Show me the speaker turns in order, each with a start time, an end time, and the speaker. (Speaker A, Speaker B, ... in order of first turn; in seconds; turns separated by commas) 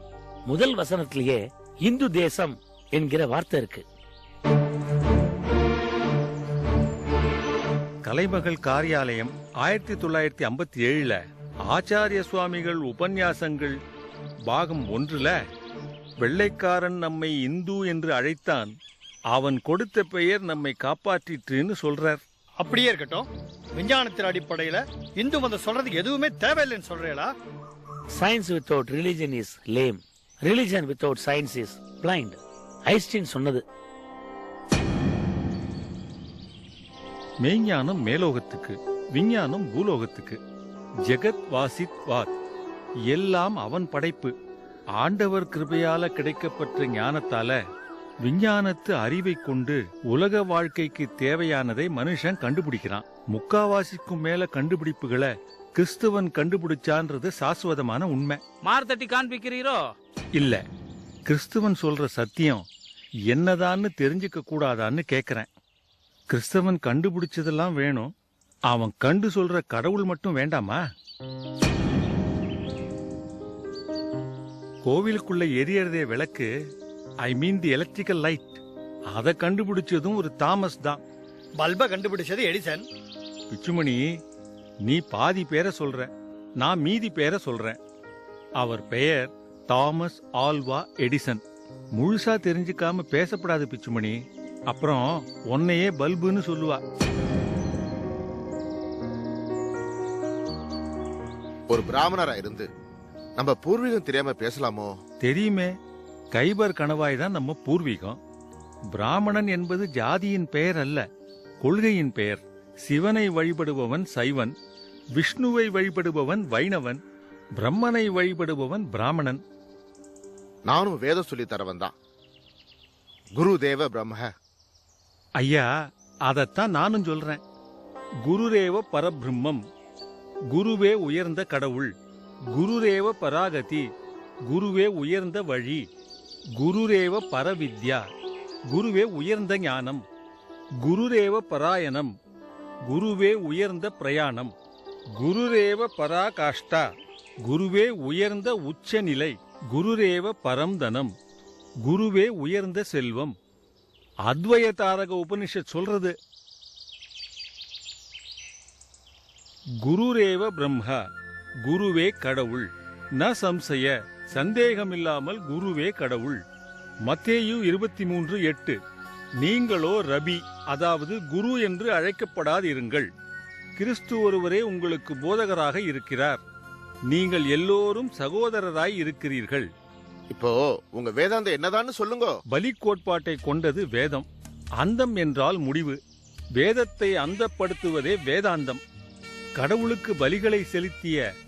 Speaker A: 0.5-3.9, Speaker B: 8.0-13.8, Speaker B: 14.5-15.4, Speaker B: 16.2-18.7, Speaker B: 19.3-22.2, Speaker C: 22.6-27.3, Speaker A: 28.2-33.6, Speaker B: 37.4-40.4, Speaker B: 41.0-42.3, Speaker B: 43.1-44.3, Speaker B: 45.0-47.6, Speaker B: 48.2-58.4, Speaker C: 58.6-59.9, Speaker B: 60.4-60.6, Speaker B: 61.3-62.6, Speaker B: 63.3-65.5, Speaker B: 66.3-68.1, Speaker B: 68.7-70.8, Speaker B: 74.8-76.5, Speaker B: 77.2-78.6, Speaker B: 79.1-81.0, Speaker C: 81.5-82.9, Speaker B: 83.5-84.0, Speaker B: 84.9-87.8, Speaker B: 88.6-91.4, Speaker B: 92.0-94.2, Speaker B: 94.7-96.8, Speaker D: 101.7-102.7, Speaker D: 103.4-104.9, Speaker B: 105.2-105.7, Speaker B: 106.3-108.2, Speaker B: 108.9-111.0, Speaker B: 111.6-114.5, Speaker B: 115.2-117.0, Speaker B: 117.6-119.4, Speaker D: 120.7-121.9, Speaker D: 123.4-124.3, Speaker B: 125.4-125.7, Speaker B: 126.3-127.4, Speaker B: 128.2-129.6, Speaker B: 130.5-131.9, Speaker B: 132.5-133.9, Speaker B: 134.5-135.9, Speaker B: 136.6-138.1, Speaker B: 138.7-140.1, Speaker B: 140.8-142.1, Speaker B: 142.9-144.5, Speaker B: 145.2-146.9, Speaker B: 147.4-151.1, Speaker B: 151.8-153.3, Speaker B: 154.3-156.1, Speaker B: 159.8-161.0, Speaker B: 161.7-166.4, Speaker B: 167.1-168.8, Speaker B: 169.4-173.1, Speaker B: 173.8-176.4, Speaker B: 177.1-179.7, Speaker D: 180.3-182.3, Speaker B: 182.5-184.3, Speaker B: 184.8-186.0, Speaker B: 186.6-188.8, Speaker B: 189.6-191.2